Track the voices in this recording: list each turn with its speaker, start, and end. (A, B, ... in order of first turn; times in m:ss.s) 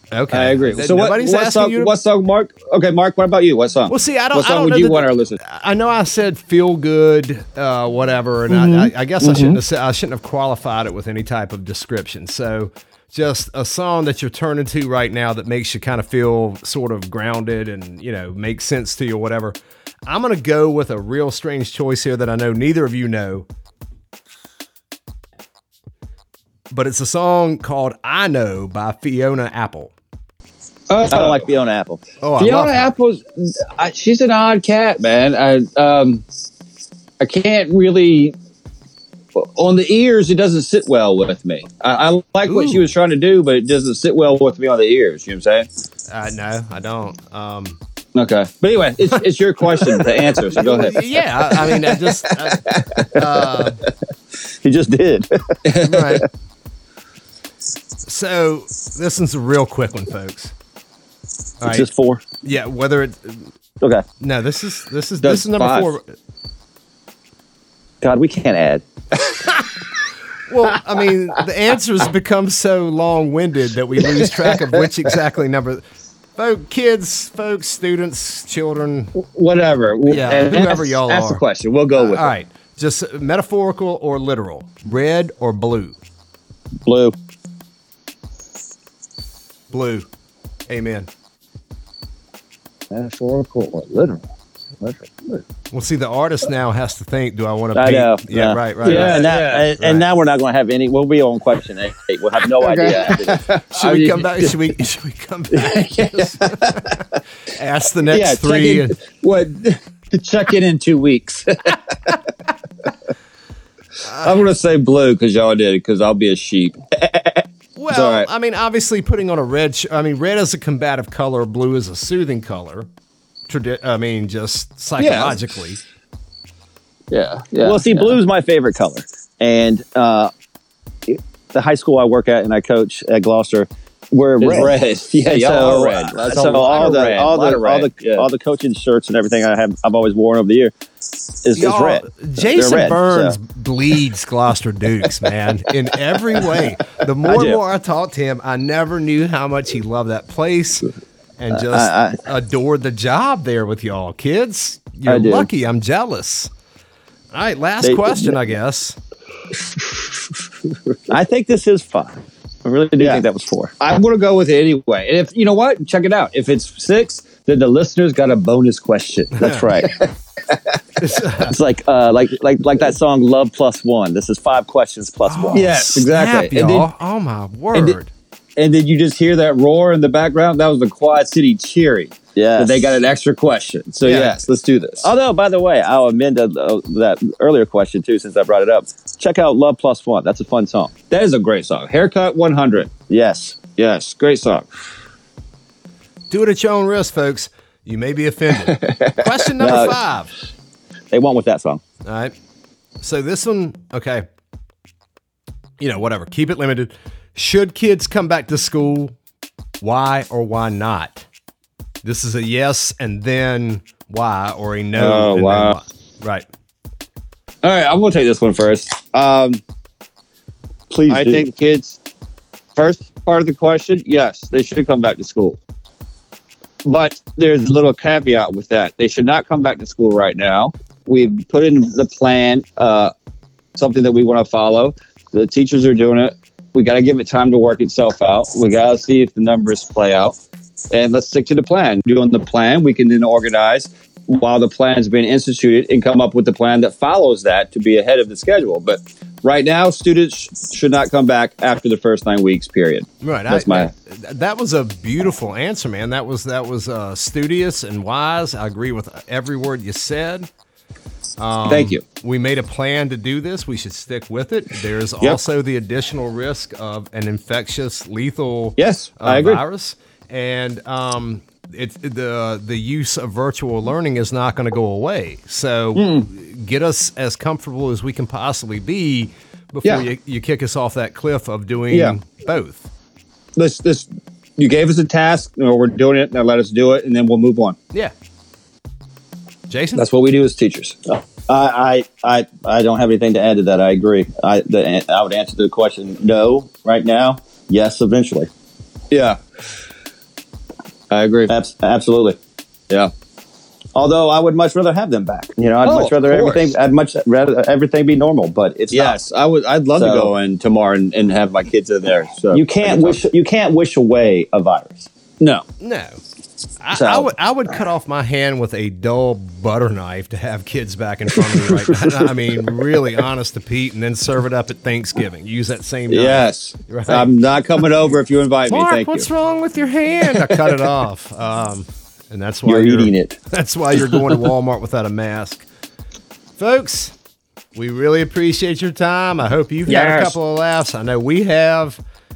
0:00.1-0:01.9 A
0:00.3-0:05.4 B
0:03.9-0:23.5 A
0:08.5-0:09.6 B
0:26.7-0:29.9 A
0:30.9-0:31.4 B
0:31.1-0:32.0 C
0:32.2-0:32.9 A
0:32.4-0:36.2 B
0:37.2-0:38.4 B
0:39.4-0:45.7 B
0:42.5-0:42.9 A
0:46.1-0:47.8 A
0:48.2-0:53.2 B
0:50.4-0:53.8 A
0:54.6-0:55.6 C
0:55.6-0:56.2 B
0:55.8-0:56.3 A
0:58.0-1:00.5 A
1:01.6-1:01.9 A
1:01.7-1:02.2 C
1:02.4-1:03.5 A
1:04.2-1:06.0 A
1:05.2-1:05.9 B
1:08.0-1:08.8 C
1:10.5-1:15.8 A
1:14.2-1:14.5 B
1:16.4-1:19.2 A
1:19.2-1:22.3 B
1:20.1-1:21.4 A
1:22.0-1:26.0 A
1:26.8-1:27.2 C
1:29.7-1:30.1 A
1:30.7-1:31.1 A
1:32.9-1:34.2 B
1:34.8-1:35.4 B
1:35.7-1:40.1 A
1:37.7-1:43.4 C
1:38.8-1:39.7 B
1:42.6-1:44.6 B
1:43.7-1:49.0 A
1:45.5-1:47.0 B
1:48.1-1:52.1 B
1:54.0-1:54.4 A
1:54.2-1:58.3 B
1:57.8-2:02.9 A
2:03.5-2:05.8 A
2:05.0-2:05.4 B
2:07.1-2:08.2 B
2:07.6-2:10.3 C
2:11.1-2:14.7 C
2:14.4-2:18.3 B
2:15.3-2:20.8 C
2:21.4-2:23.4 C
2:21.6-2:36.5 A
2:27.3-2:27.6 B
2:31.5-2:32.2 C
2:35.1-2:35.5 C
2:37.3-2:39.0 A
2:37.8-2:38.4 C
2:41.1-2:43.7 C
2:43.0-2:43.2 B
2:43.8-2:49.5 B
2:49.4-2:50.0 C
2:51.0-2:51.5 A
2:51.4-2:55.7 C
2:55.3-2:58.1 A
2:55.5-2:56.9 B
2:58.6-3:05.1 B
3:02.4-3:03.0 C
3:04.0-3:04.3 A
3:05.0-3:10.9 C
3:11.1-3:12.9 B
3:13.1-3:13.6 C
3:13.8-3:14.7 B
3:16.3-3:20.3 A
3:19.6-3:20.0 C
3:21.1-3:21.8 C
3:22.0-3:22.3 A
3:23.0-3:24.3 A
3:25.8-3:29.1 A
3:29.8-3:31.3 A
3:32.0-3:36.4 A
3:35.0-3:35.8 B
3:37.6-3:39.6 B
3:40.9-3:41.4 C
3:41.1-3:42.0 B
3:42.8-3:45.6 B
3:46.8-3:53.1 B
3:53.8-4:00.4 B
4:00.9-4:13.9 B
4:13.2-4:20.5 A
4:21.4-4:42.9 A
4:21.7-4:22.0 B
4:28.8-4:29.6 B
4:36.0-4:36.3 B
4:41.9-4:42.2 B
4:43.6-4:44.1 B
4:44.6-4:47.8 B
4:49.7-4:50.0 A
4:50.0-4:51.0 B
4:51.1-4:58.5 C
4:59.1-4:59.4 B
5:01.1-5:01.5 B
5:01.5-5:02.4 C
5:04.0-5:09.2 C
5:05.8-5:06.7 B
5:08.9-5:13.2 B
5:10.0-5:10.3 C
5:12.5-5:15.1 C
5:15.4-5:15.6 B
5:15.8-5:16.2 A
5:16.8-5:27.3 A
5:16.9-5:17.3 C
5:26.1-5:29.3 B
5:28.7-5:35.6 A
5:32.6-5:33.4 C
5:36.6-5:37.1 A
5:37.8-5:42.0 A
5:39.9-5:40.3 B